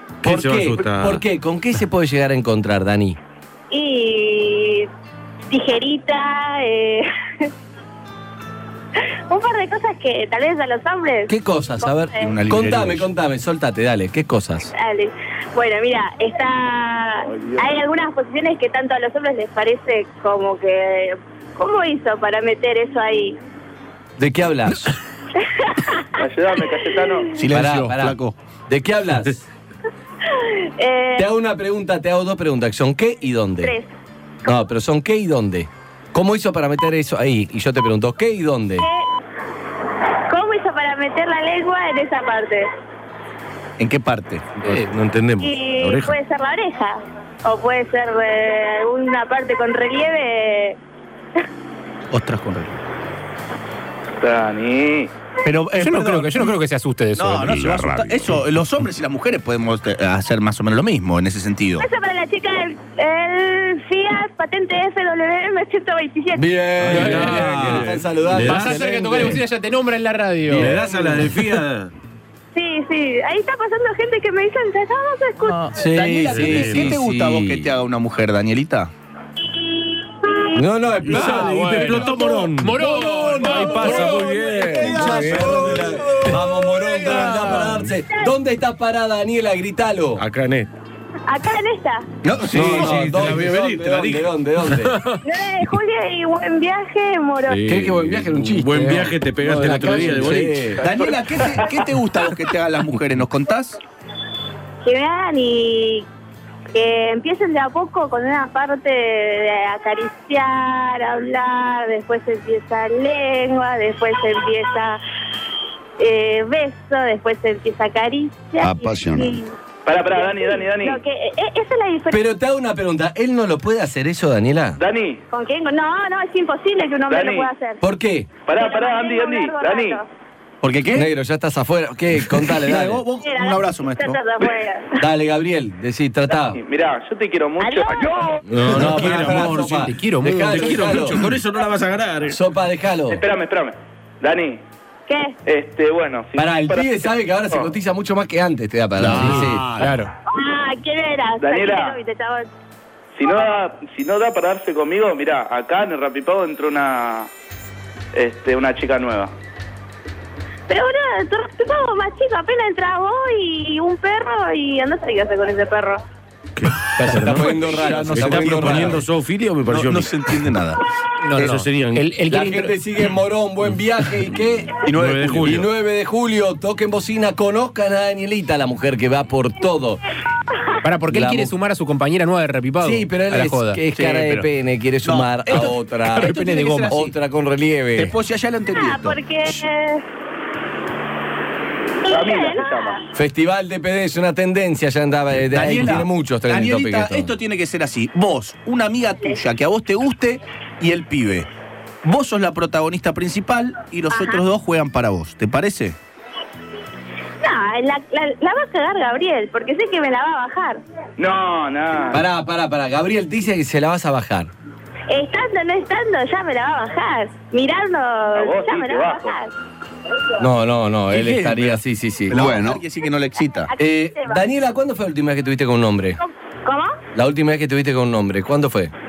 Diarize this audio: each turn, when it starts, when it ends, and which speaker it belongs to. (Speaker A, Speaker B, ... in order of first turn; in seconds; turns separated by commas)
Speaker A: 0.2-1.2, Speaker B: 0.2-3.2, Speaker C: 3.7-4.9, Speaker C: 5.5-7.5, Speaker C: 9.0-12.3, Speaker B: 11.3-14.7, Speaker D: 12.2-13.1, Speaker C: 14.7-23.4, Speaker E: 17.3-17.7, Speaker B: 24.2-24.9, Speaker C: 25.4-26.1, Speaker E: 26.1-27.3, Speaker D: 27.4-28.3, Speaker B: 27.5-29.4, Speaker C: 30.3-31.3, Speaker B: 31.2-33.7, Speaker C: 33.6-33.9, Speaker B: 34.4-38.9, Speaker C: 38.8-39.1, Speaker C: 40.3-42.7, Speaker D: 43.8-44.5, Speaker A: 44.6-46.1, Speaker F: 44.6-44.9, Speaker C: 45.4-50.8, Speaker D: 52.1-52.8, Speaker E: 54.2-55.1, Speaker D: 55.4-56.5, Speaker F: 55.7-58.0, Speaker D: 57.1-61.9, Speaker C: 61.8-66.5, Speaker B: 66.3-69.4, Speaker A: 66.8-69.2, Speaker F: 66.9-70.8, Speaker A: 70.5-71.9, Speaker B: 70.5-71.3, Speaker C: 72.5-75.8, Speaker D: 75.5-78.9, Speaker B: 75.7-77.8, Speaker A: 76.3-77.0, Speaker C: 79.8-80.6, Speaker B: 80.5-82.2, Speaker F: 81.0-84.6, Speaker A: 81.1-86.1, Speaker D: 82.1-87.6, Speaker B: 84.7-90.2, Speaker A: 87.3-87.7, Speaker A: 90.2-90.7, Speaker C: 91.3-92.1, Speaker D: 92.2-93.5, Speaker A: 92.5-94.3, Speaker B: 92.5-95.0, Speaker C: 95.2-97.6, Speaker A: 97.5-100.8, Speaker B: 97.7-100.8, Speaker E: 100.8-101.7, Speaker D: 100.8-103.8, Speaker C: 104.8-106.0, Speaker C: 106.7-115.0, Speaker C: 116.0-122.2, Speaker E: 119.8-121.0, Speaker B: 122.1-124.8, Speaker E: 124.8-125.2, Speaker C: 125.3-127.8, Speaker E: 127.1-127.5, Speaker B: 127.8-128.3, Speaker E: 128.4-130.0, Speaker C: 128.5-130.1, Speaker D: 130.6-131.1, Speaker B: 130.9-133.0, Speaker D: 132.4-134.2, Speaker C: 133.2-134.9, Speaker B: 135.0-136.6, Speaker E: 136.4-138.3, Speaker C: 137.6-138.3, Speaker B: 138.5-141.3, Speaker A: 138.5-142.4, Speaker F: 139.5-141.1, Speaker B: 142.3-143.2, Speaker E: 143.1-144.6, Speaker C: 145.1-145.3, Speaker E: 145.4-147.7, Speaker B: 146.3-149.7, Speaker F: 149.1-150.1, Speaker A: 149.1-149.6, Speaker D: 149.2-149.9, Speaker C: 150.3-152.5, Speaker E: 151.4-152.0, Speaker E: 153.2-157.3, Speaker C: 153.2-153.5, Speaker E: 158.1-159.3, Speaker C: 160.7-166.0, Speaker A: 166.6-170.1, Speaker B: 166.9-169.0, Speaker D: 167.2-169.1, Speaker D: 169.6-170.8, Speaker F: 171.2-172.8, Speaker A: 171.4-172.1, Speaker B: 172.3-174.8, Speaker D: 174.8-175.6, Speaker A: 174.9-175.7, Speaker B: 175.4-180.0, Speaker F: 180.8-183.8, Speaker B: 181.1-181.5, Speaker B: 182.8-188.1, Speaker D: 183.9-184.4, Speaker D: 185.0-187.1, Speaker F: 186.2-186.9, Speaker D: 187.9-189.6, Speaker C: 188.7-190.0, Speaker C: 192.0-193.0, Speaker E: 192.1-193.0, Speaker B: 193.1-197.3, Speaker D: 195.5-201.5, Speaker D: 202.0-206.0, Speaker C: 204.1-204.4, Speaker C: 207.4-210.8, Speaker E: 211.2-212.2, Speaker B: 212.1-214.5, Speaker C: 215.1-219.5, Speaker E: 218.3-219.3, Speaker B: 220.4-222.8, Speaker D: 221.1-223.7, Speaker C: 223.7-224.4, Speaker B: 223.8-226.2, Speaker C: 226.2-226.9, Speaker B: 227.1-228.9